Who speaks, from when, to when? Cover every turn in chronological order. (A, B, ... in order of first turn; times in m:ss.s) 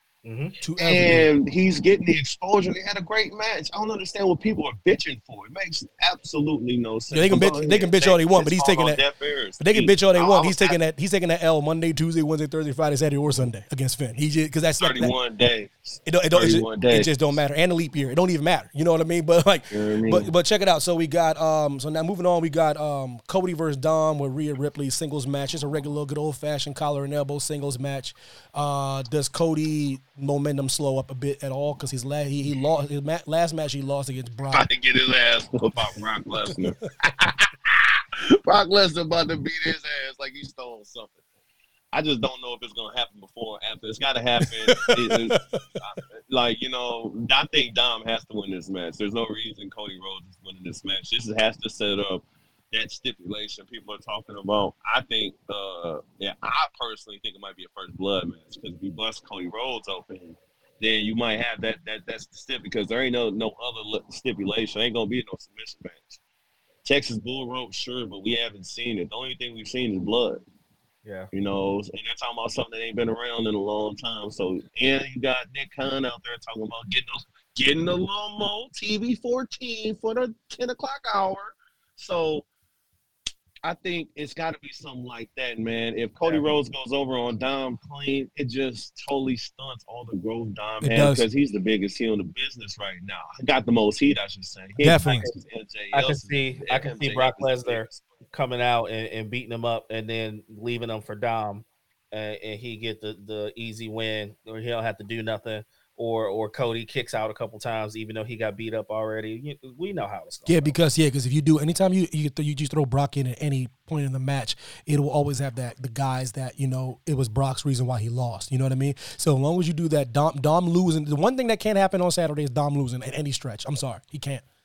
0:00.2-0:00.6 A
0:00.6-0:01.3 B
0:00.8-0:10.8 C
0:07.1-0:09.0 B
0:09.6-0:15.1 B
0:14.8-0:17.4 C
0:16.0-0:34.7 B
0:19.7-0:20.3 C
0:34.5-0:41.1 C
0:41.9-1:06.2 C
0:44.7-0:45.6 B
1:06.8-1:10.4 C
1:11.0-1:11.3 A
1:11.3-1:22.4 C
1:23.6-1:38.0 C
1:30.8-1:31.2 B
1:34.8-1:35.2 B
1:35.9-1:50.7 A
1:50.5-2:04.4 B